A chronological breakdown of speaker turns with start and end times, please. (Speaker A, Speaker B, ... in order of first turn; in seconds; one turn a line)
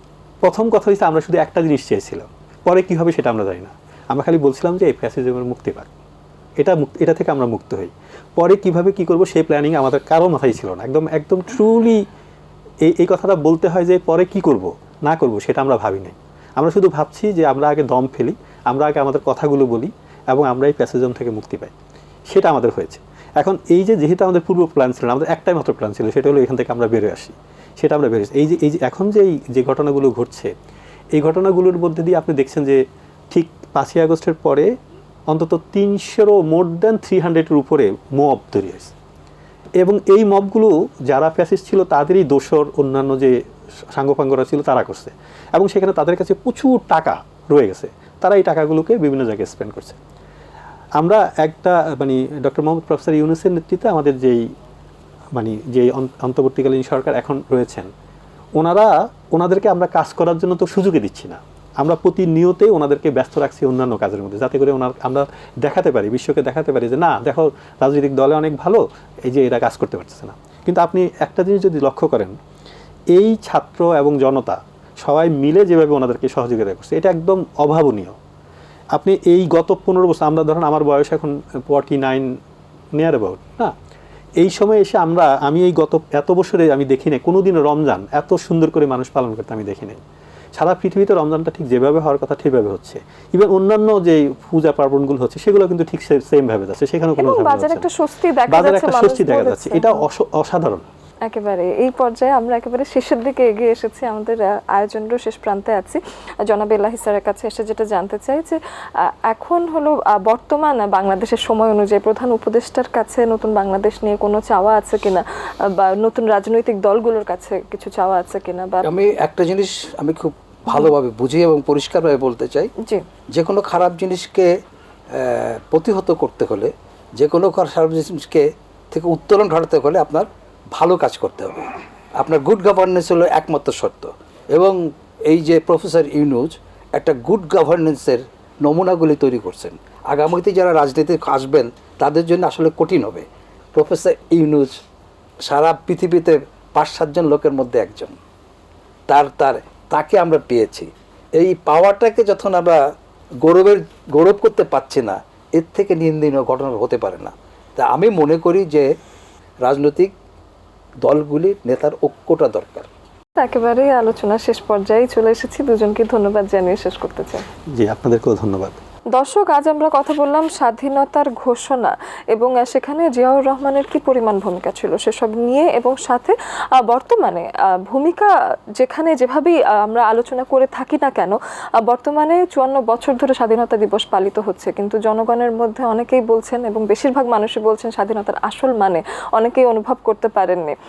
Speaker A: 0.4-5.9
Speaker A: 6.6-12.0
Speaker A: 12.8-21.7
Speaker A: 22.3-30.5
Speaker A: 31.1-34.7
Speaker A: 35.3-38.9
Speaker A: 39.8-43.4
Speaker A: 43.9-50.0
Speaker A: 51.0-54.5
Speaker A: 55.3-57.9
Speaker A: 58.5-72.3
Speaker A: 73.1-78.2
Speaker A: 78.9-82.3
Speaker A: 82.9-83.7
Speaker A: 84.4-90.0
Speaker A: 90.5-97.9
Speaker B: 97.2-100.0
Speaker A: 98.5-100.8
Speaker B: 101.3-118.9
Speaker C: 118.8-122.7
Speaker C: 123.3-124.5
Speaker C: 125.1-144.7
Speaker C: 145.4-148.2
Speaker C: 149.1-152.9
Speaker C: 153.4-158.9
Speaker C: 159.6-160.1
Speaker C: 161.0-162.9
Speaker B: 163.4-167.4
Speaker A: 167.7-168.8
Speaker B: 169.2-190.8